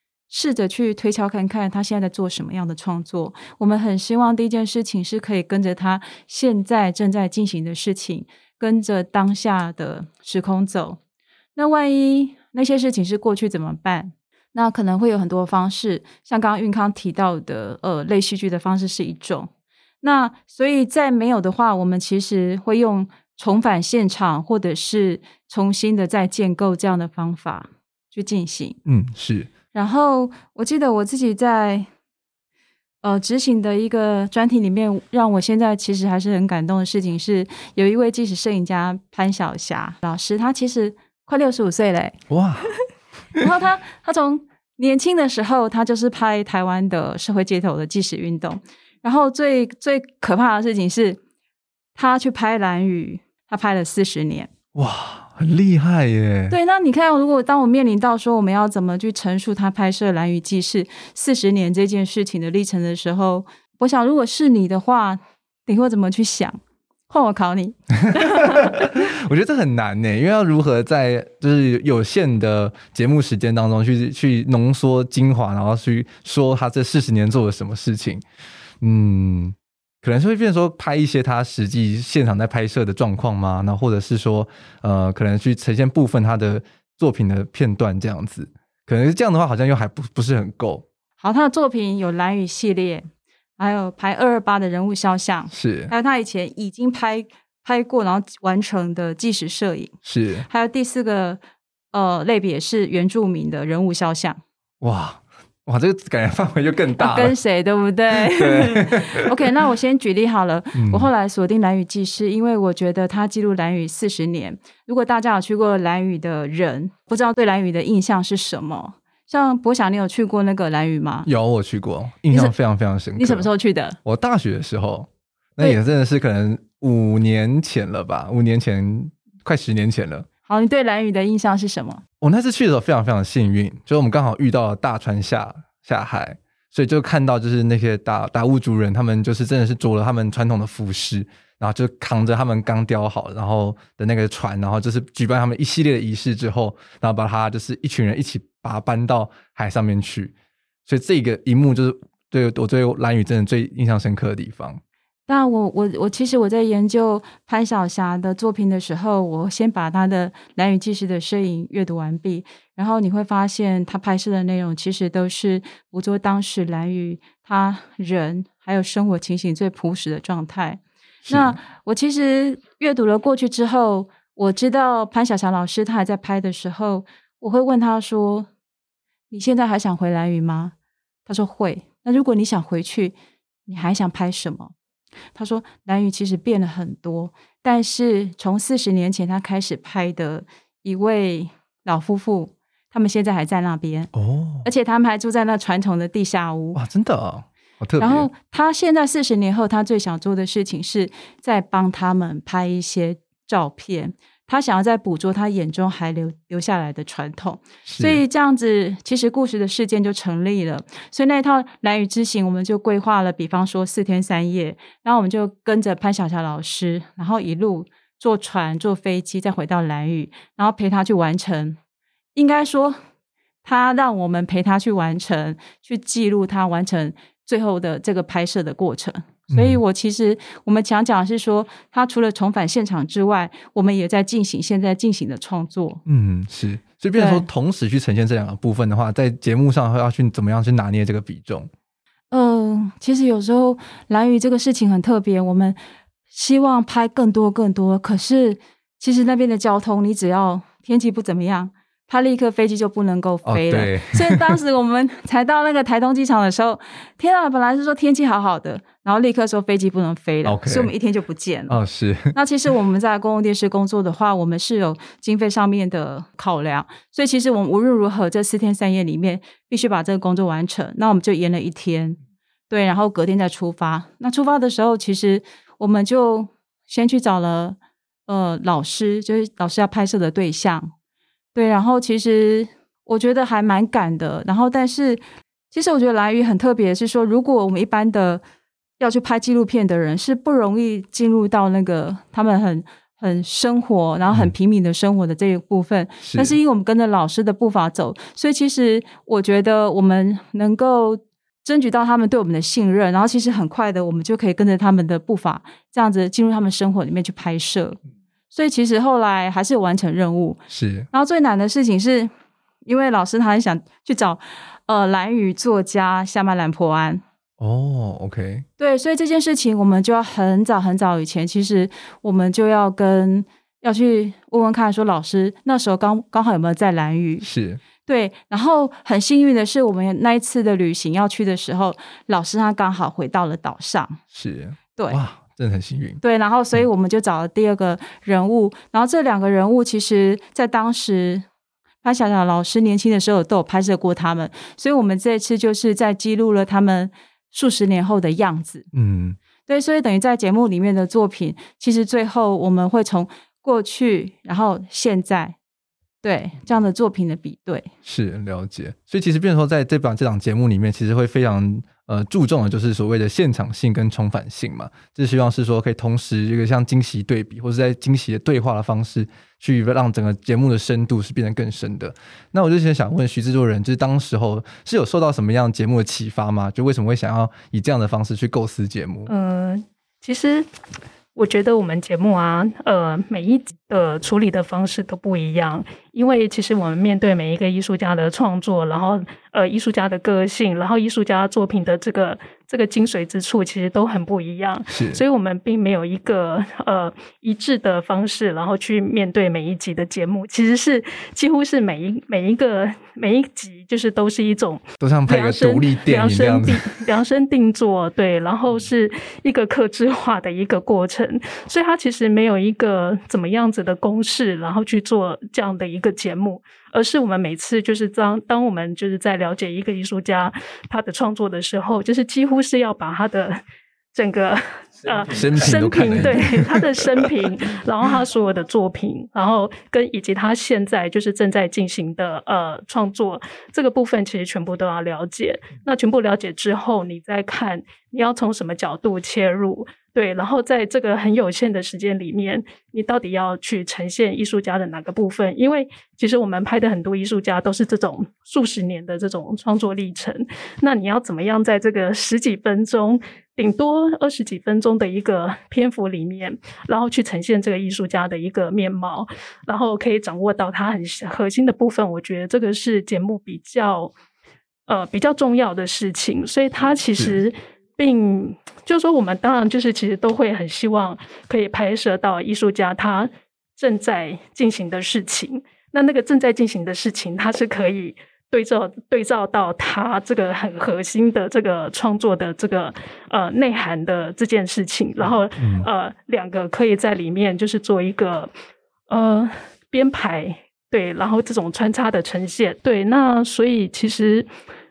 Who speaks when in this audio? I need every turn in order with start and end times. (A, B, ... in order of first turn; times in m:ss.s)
0:00.3-0:11.0 A
0:11.6-0:19.5 A
0:20.0-0:28.8 A
0:28.9-0:29.5 B
0:29.7-0:31.9 A
0:33.0-0:42.2 A
0:42.3-0:42.7 B
0:43.4-0:51.2 A
0:52.0-0:54.5 A
0:54.8-0:56.6 B
0:56.5-1:09.0 A
1:08.1-1:18.2 B
1:18.8-1:30.9 B
1:31.2-1:39.9 A
1:35.5-1:35.9 B
1:40.0-1:40.5 B
1:40.5-1:41.4 A
1:41.9-1:44.4 A
1:44.8-1:47.4 B
1:47.0-2:01.3 A
1:48.3-1:49.3 B
1:50.8-1:51.1 B
2:01.3-2:03.5 B
2:03.2-2:04.0 A
2:04.0-2:10.3 B
2:10.5-2:12.0 A
2:12.2-2:30.3 B
2:30.9-2:34.8 B
2:35.3-2:58.5 A
2:51.3-2:51.6 B
2:59.3-3:00.7 A
3:01.3-3:03.1 A
3:03.7-3:04.7 A
3:05.3-3:14.1 A
3:14.2-3:14.7 B
3:14.6-3:16.8 A
3:16.7-3:18.3 B
3:18.0-3:41.8 A
3:27.9-3:28.2 B
3:42.4-3:43.0 A
3:43.6-3:56.0 A
3:49.5-3:49.8 B
3:56.1-4:01.7 B
3:57.2-3:57.4 A
4:02.3-4:05.8 A
4:06.3-4:21.8 A
4:13.4-4:14.6 B
4:20.4-4:20.9 B
4:21.7-4:22.4 B
4:22.3-4:32.2 A
4:32.7-4:40.9 A
4:41.5-4:48.4 A
4:49.0-5:08.0 A
4:56.2-4:56.6 B
5:08.5-5:12.3 A
5:10.7-5:11.1 B
5:12.8-5:17.2 A
5:17.6-5:18.7 B
5:18.8-5:27.5 A
5:27.4-5:27.8 B
5:28.0-5:34.2 A
5:34.3-5:36.2 B
5:36.2-5:41.4 A
5:42.0-5:48.9 A
5:48.9-5:49.4 B
5:49.7-5:55.6 A
5:56.2-5:57.9 A
5:58.0-6:19.3 B
6:19.3-6:20.7 C
6:21.4-7:03.6 C
6:34.9-6:35.2 B
6:45.0-6:47.0 B
7:04.1-7:44.1 C
7:05.3-7:07.3 B
7:44.9-8:08.5 C
8:05.6-8:05.9 B
8:09.1-8:14.5 C